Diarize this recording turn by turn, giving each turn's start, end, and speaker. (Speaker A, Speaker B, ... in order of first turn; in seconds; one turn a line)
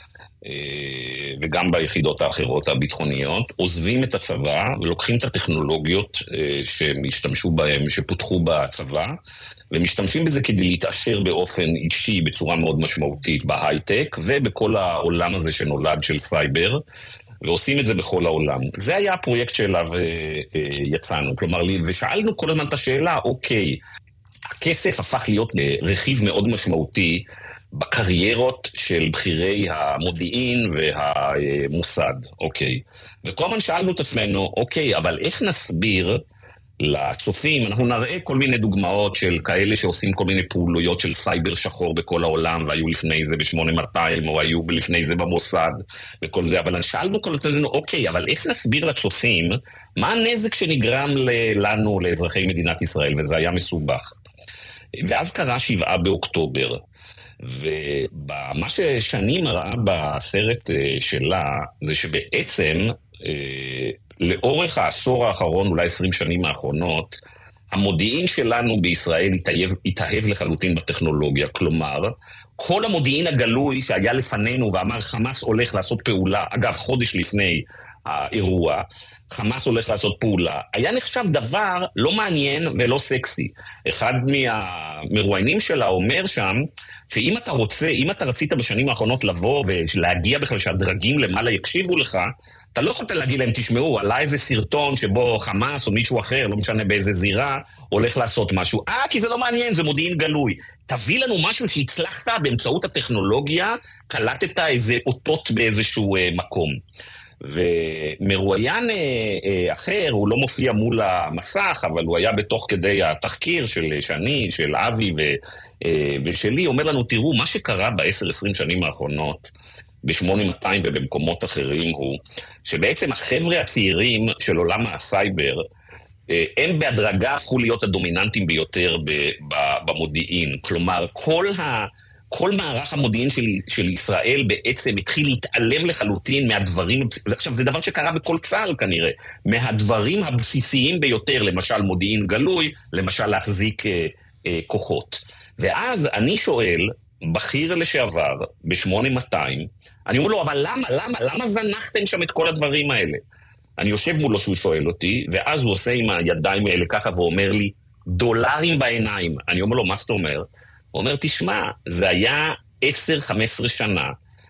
Speaker A: 0.4-9.2
Speaker A: 9.7-16.8
Speaker A: 17.4-23.8
Speaker A: 24.6-36.2
Speaker A: 36.8-54.1
Speaker A: 55.0-56.8
Speaker A: 57.4-67.2
Speaker A: 67.7-106.8
Speaker A: 107.4-119.5
Speaker A: 120.0-125.6
Speaker A: 126.3-153.2
Speaker A: 153.8-164.1